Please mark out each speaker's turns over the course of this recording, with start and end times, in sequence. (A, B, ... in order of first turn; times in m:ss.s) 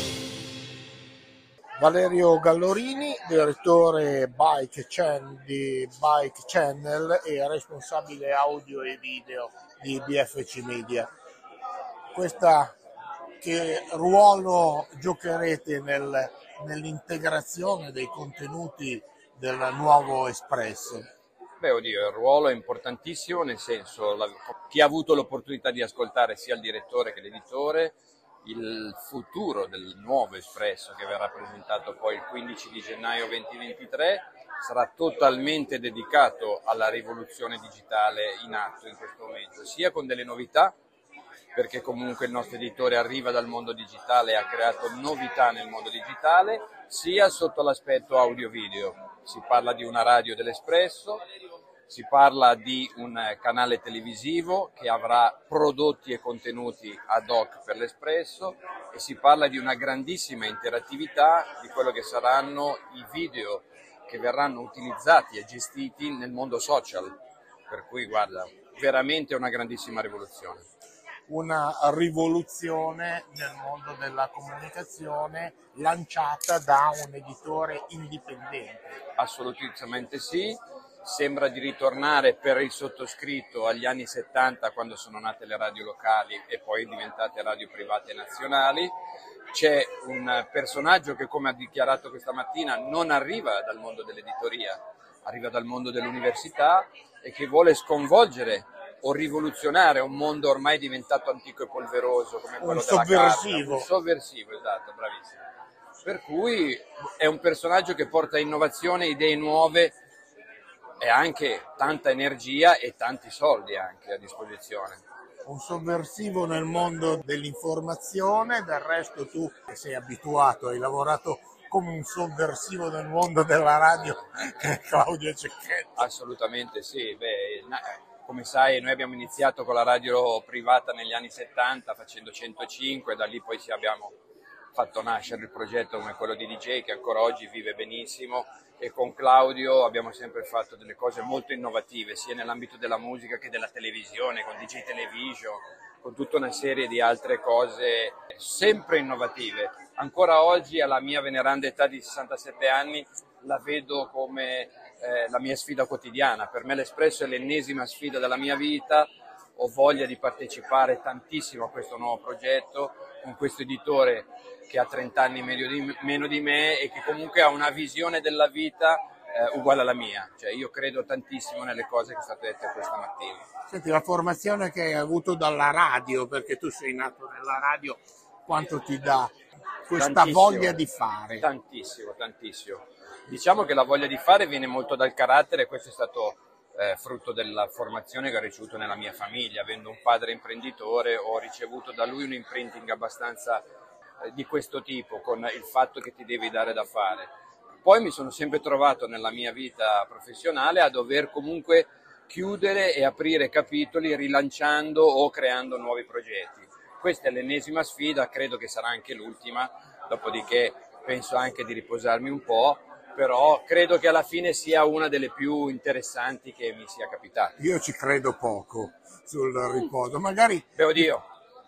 0:01.8-0:11.1 A
0:12.1-0:12.7 A
0:13.4-0:21.0 A
0:21.6-0:40.7 B
0:41.5-0:51.2 B
0:51.9-1:07.1 B
1:07.7-1:10.6 B
1:11.3-1:19.0 A
1:19.2-1:28.9 B
1:29.5-1:45.4 B
1:42.6-1:43.9 A
1:46.0-1:50.0 B
1:51.0-1:55.0 B
1:55.4-2:06.0 A
2:06.0-2:14.1 B
2:14.7-2:53.4 B
2:53.7-2:59.3 A
2:59.9-3:01.4 A
3:00.0-3:00.8 B
3:01.4-3:13.6 B
3:14.2-3:17.3 B
3:17.8-3:37.5 B
3:37.6-3:41.0 A
3:40.8-3:41.2 B